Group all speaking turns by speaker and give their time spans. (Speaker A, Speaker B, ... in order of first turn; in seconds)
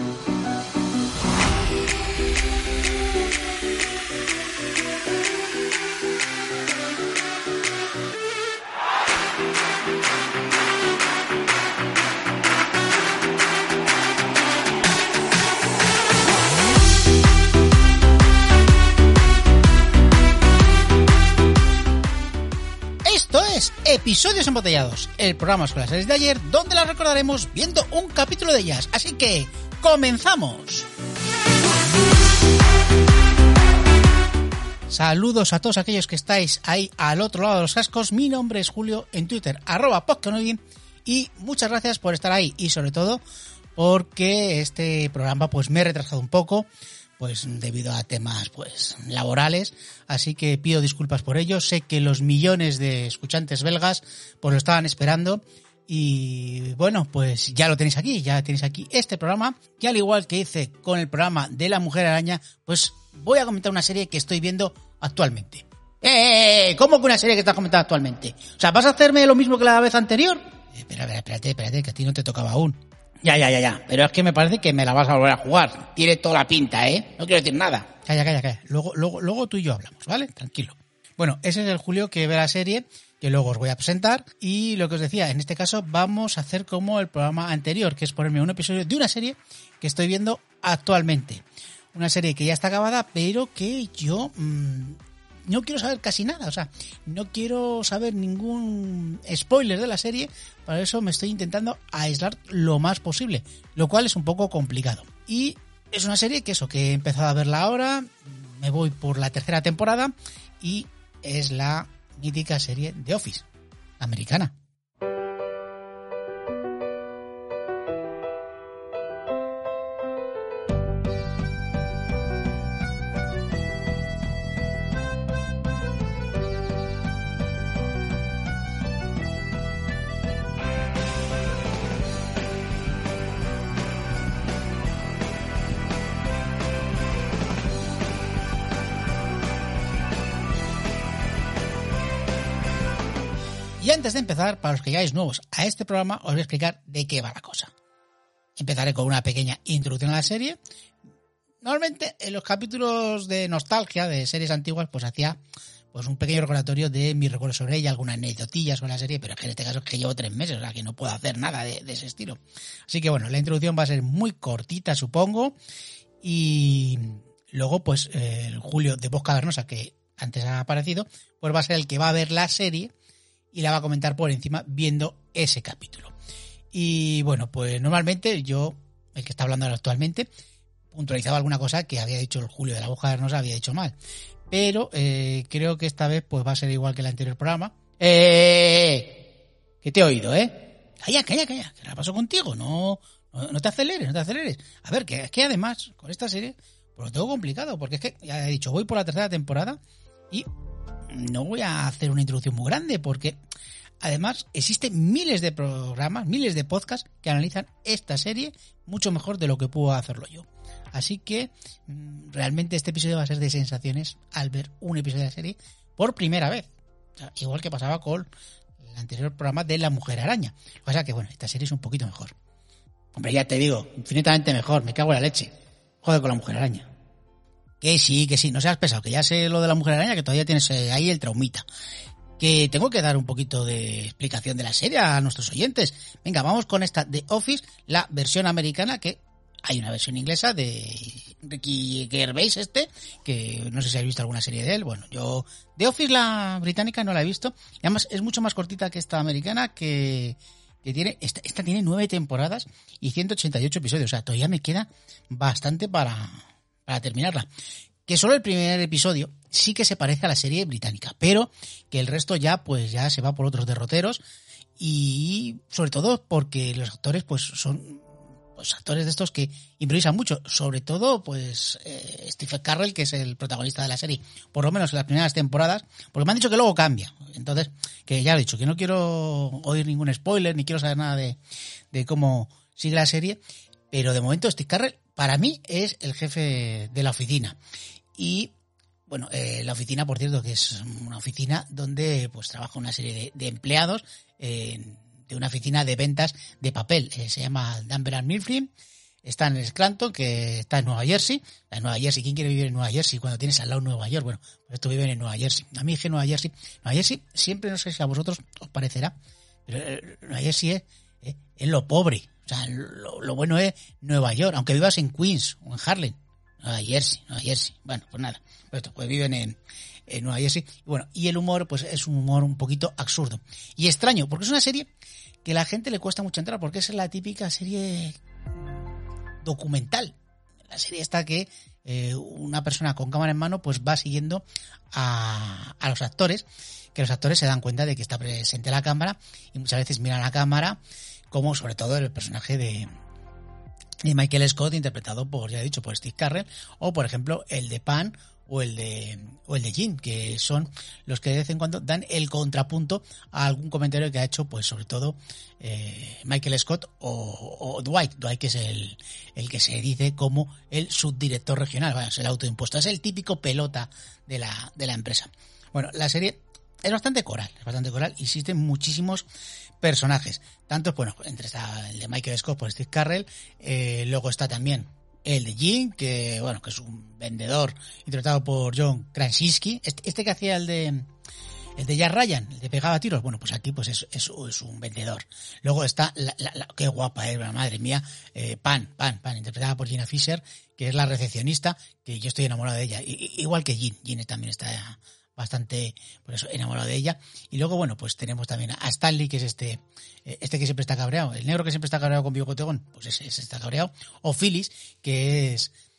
Speaker A: 23.0-30.9, 34.9-43.2, 43.8-46.7, 47.2-113.5, 114.0-114.5, 143.8-147.7, 148.6-150.6, 151.6-155.4, 155.9-165.6, 166.2-172.9, 173.5-176.1, 176.7-180.3, 180.9-184.0, 184.5-189.2, 189.8-199.8, 201.1-203.4, 204.0-218.3, 218.8-222.3, 223.1-226.9, 227.8-231.7, 232.4-257.5, 258.1-264.2, 264.8-281.4, 281.9-283.4, 283.9-287.6, 288.2-288.5, 289.1-298.7, 299.2-309.1, 309.7-324.9, 325.4-328.2, 329.4-330.1, 330.7-340.8, 341.3-342.9, 344.0-369.3, 369.8-381.1, 381.8-405.7